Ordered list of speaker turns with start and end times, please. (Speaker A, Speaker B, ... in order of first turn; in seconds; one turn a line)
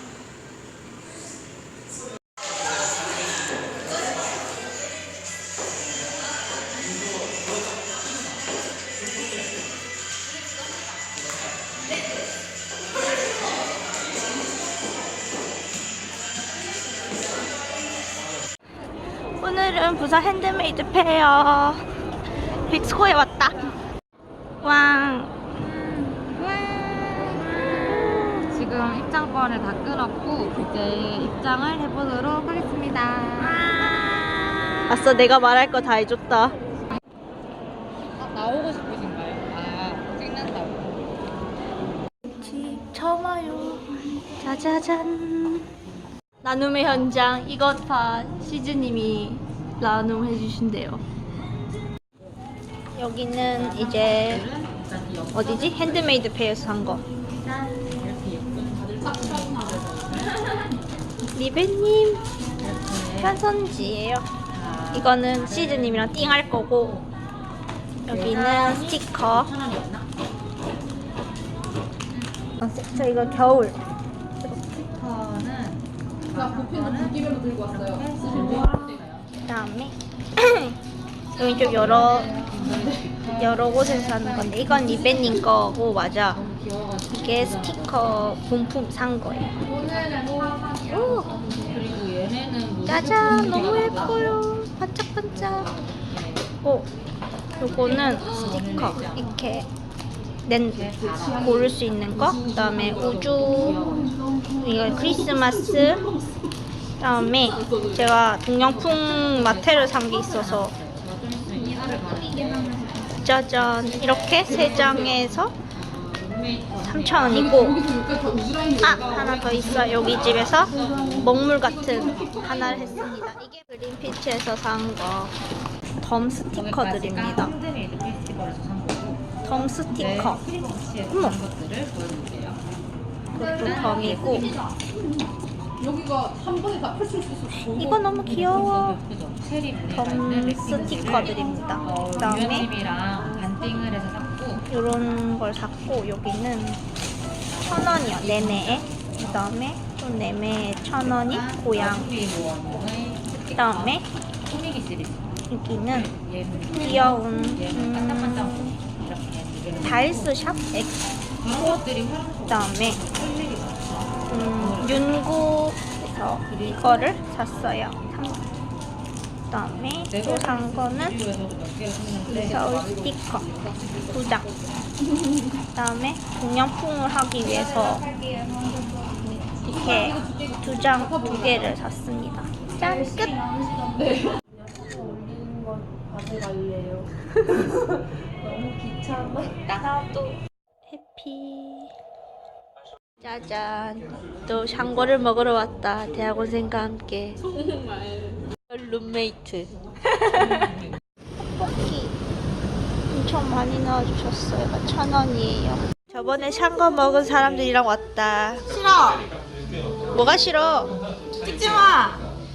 Speaker A: 19.4-21.8
Speaker A: 22.6-23.6
Speaker A: 24.6-25.3
Speaker B: 26.0-33.7
Speaker A: 34.9-36.5
Speaker B: 38.2-41.1
Speaker A: 42.2-45.6
Speaker A: 46.4-51.0
Speaker A: 52.9-54.5
Speaker B: 53.5-56.2
Speaker A: 55.3-57.0
Speaker B: 57.2-60.7
Speaker C: 59.0-59.8
Speaker A: 61.3-62.2
Speaker B: 62.6-63.4
Speaker A: 63.2-64.3
Speaker B: 64.5-67.0
Speaker A: 64.9-67.0
Speaker A: 68.0-69.5
Speaker B: 68.1-70.1
Speaker A: 72.6-73.8
Speaker B: 74.4-79.3
Speaker C: 76.3-78.9
Speaker A: 79.4-80.8
Speaker A: 81.3-82.4
Speaker B: 81.7-85.4
Speaker C: 82.2-82.8
Speaker A: 83.4-86.4
Speaker B: 86.3-88.4
Speaker A: 87.1-89.6
Speaker C: 89.6-91.9
Speaker B: 89.8-90.6
Speaker A: 90.9-91.4
Speaker B: 91.6-94.4
Speaker A: 92.8-95.7
Speaker B: 95.3-96.5
Speaker A: 96.6-96.9
Speaker A: 97.6-99.7
Speaker B: 97.6-99.3
Speaker C: 98.1-99.0
Speaker A: 100.5-103.8
Speaker B: 100.7-101.7
Speaker C: 101.1-101.7
Speaker C: 102.2-106.5
Speaker B: 102.7-104.2
Speaker A: 104.6-106.0
Speaker A: 107.0-110.7
Speaker C: 107.2-108.2
Speaker B: 108.8-113.5
Speaker C: 112.4-112.9
Speaker A: 113.2-115.5
Speaker C: 114.1-115.2
Speaker B: 114.5-114.8
Speaker B: 115.7-117.5
Speaker A: 116.8-117.8
Speaker C: 117.3-122.9
Speaker A: 118.8-125.3
Speaker B: 118.9-121.4
Speaker B: 122.1-123.0
Speaker A: 126.0-127.5
Speaker B: 126.5-129.3
Speaker A: 129.4-130.4
Speaker B: 129.9-132.6
Speaker A: 131.1-131.3
Speaker B: 133.3-134.6
Speaker A: 133.3-134.6
Speaker C: 133.4-135.0
Speaker C: 135.8-138.2
Speaker A: 137.6-139.0
Speaker B: 138.2-144.7
Speaker A: 139.9-142.7
Speaker C: 141.4-143.5
Speaker A: 144.7-146.8
Speaker B: 147.5-149.3
Speaker A: 147.7-152.1
Speaker B: 150.9-160.3
Speaker A: 153.5-154.0
Speaker A: 155.5-156.1
Speaker A: 156.7-158.8
Speaker A: 159.8-161.8
Speaker B: 161.4-165.2
Speaker A: 162.5-163.0
Speaker A: 164.3-168.4
Speaker B: 166.5-167.9
Speaker A: 169.5-171.2
Speaker B: 169.7-172.7
Speaker A: 172.3-173.4
Speaker C: 172.4-174.6
Speaker A: 174.1-174.5
Speaker A: 175.7-178.1
Speaker C: 177.5-181.8
Speaker A: 179.7-183.4
Speaker C: 182.8-189.5
Speaker A: 189.4-191.9
Speaker A: 193.2-197.4
Speaker A: 198.7-200.7
Speaker A: 201.5-202.2
Speaker A: 203.1-209.1
Speaker A: 210.1-210.9